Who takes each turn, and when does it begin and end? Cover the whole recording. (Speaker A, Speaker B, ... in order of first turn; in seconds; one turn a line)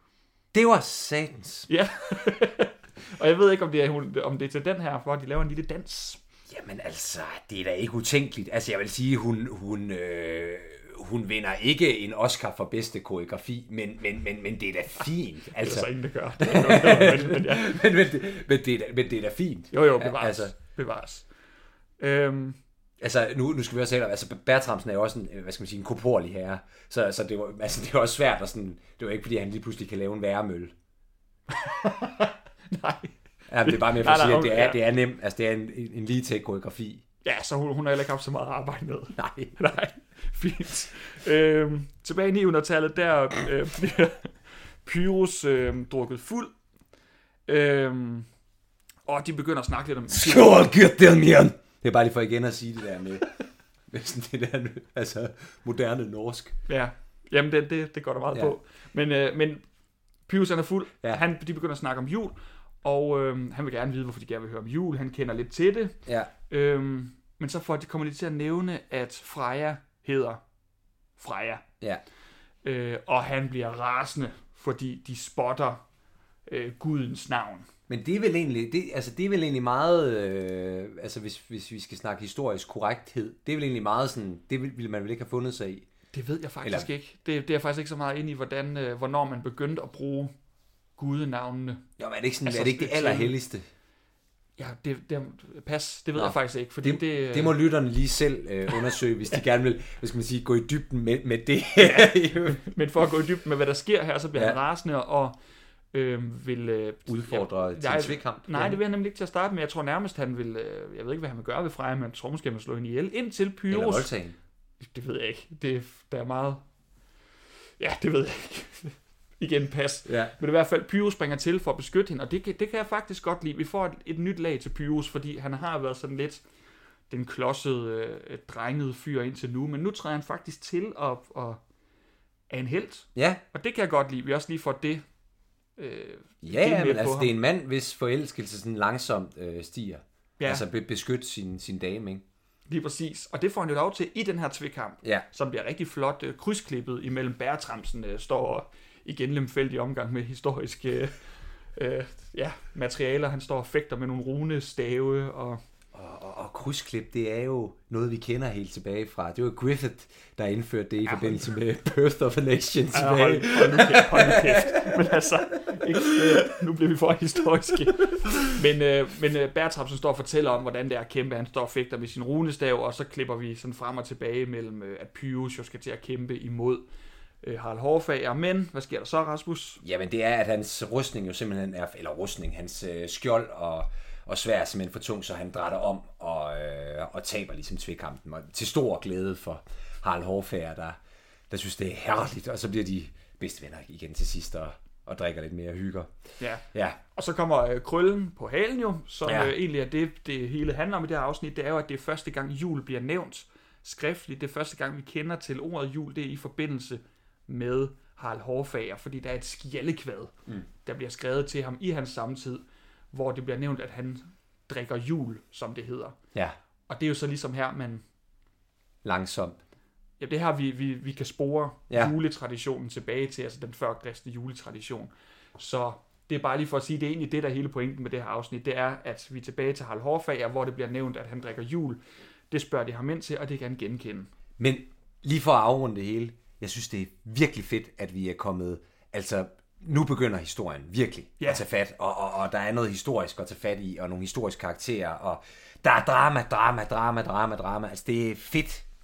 Speaker A: 0.5-1.7
Speaker B: 1.7-6.2
Speaker A: 6.5-15.9
Speaker B: 15.6-17.8
Speaker A: 16.4-20.5
Speaker B: 19.7-21.3
Speaker B: 22.0-22.6
Speaker A: 23.0-30.7
Speaker B: 31.5-34.8
Speaker A: 33.5-37.0
Speaker B: 37.2-46.5
Speaker A: 39.2-39.5
Speaker B: 47.5-48.3
Speaker B: 49.1-50.6
Speaker A: 50.1-53.3
Speaker A: 53.9-56.5
Speaker B: 56.7-59.6
Speaker B: 60.3-66.0
Speaker B: 66.5-70.4
Speaker B: 71.2-71.6
Speaker B: 72.6-75.8
Speaker B: 76.5-77.7
Speaker A: 77.9-85.9
Speaker B: 86.1-90.3
Speaker B: 91.0-91.8
Speaker A: 92.0-93.7
Speaker B: 92.4-93.3
Speaker B: 94.6-97.6
Speaker A: 96.2-102.6
Speaker B: 101.8-105.3
Speaker B: 105.9-114.1
Speaker A: 107.1-108.8
Speaker A: 113.7-114.4
Speaker B: 114.8-116.6
Speaker B: 117.8-126.5
Speaker A: 120.1-120.3
Speaker B: 127.1-131.6
Speaker B: 132.5-135.0
Speaker A: 133.2-133.4
Speaker B: 135.8-137.3
Speaker A: 136.4-142.2
Speaker B: 140.4-140.7
Speaker B: 142.7-155.6
Speaker A: 155.9-164.4
Speaker B: 161.1-161.5
Speaker B: 162.9-176.8
Speaker B: 177.4-179.8
Speaker A: 179.8-191.0
Speaker A: 191.5-196.1
Speaker B: 196.4-210.3
Speaker A: 196.7-197.0
Speaker A: 199.2-199.5
Speaker B: 210.8-216.2
Speaker B: 216.9-218.0
Speaker A: 219.1-219.6
Speaker B: 220.2-232.0
Speaker B: 232.5-234.3
Speaker A: 234.6-248.8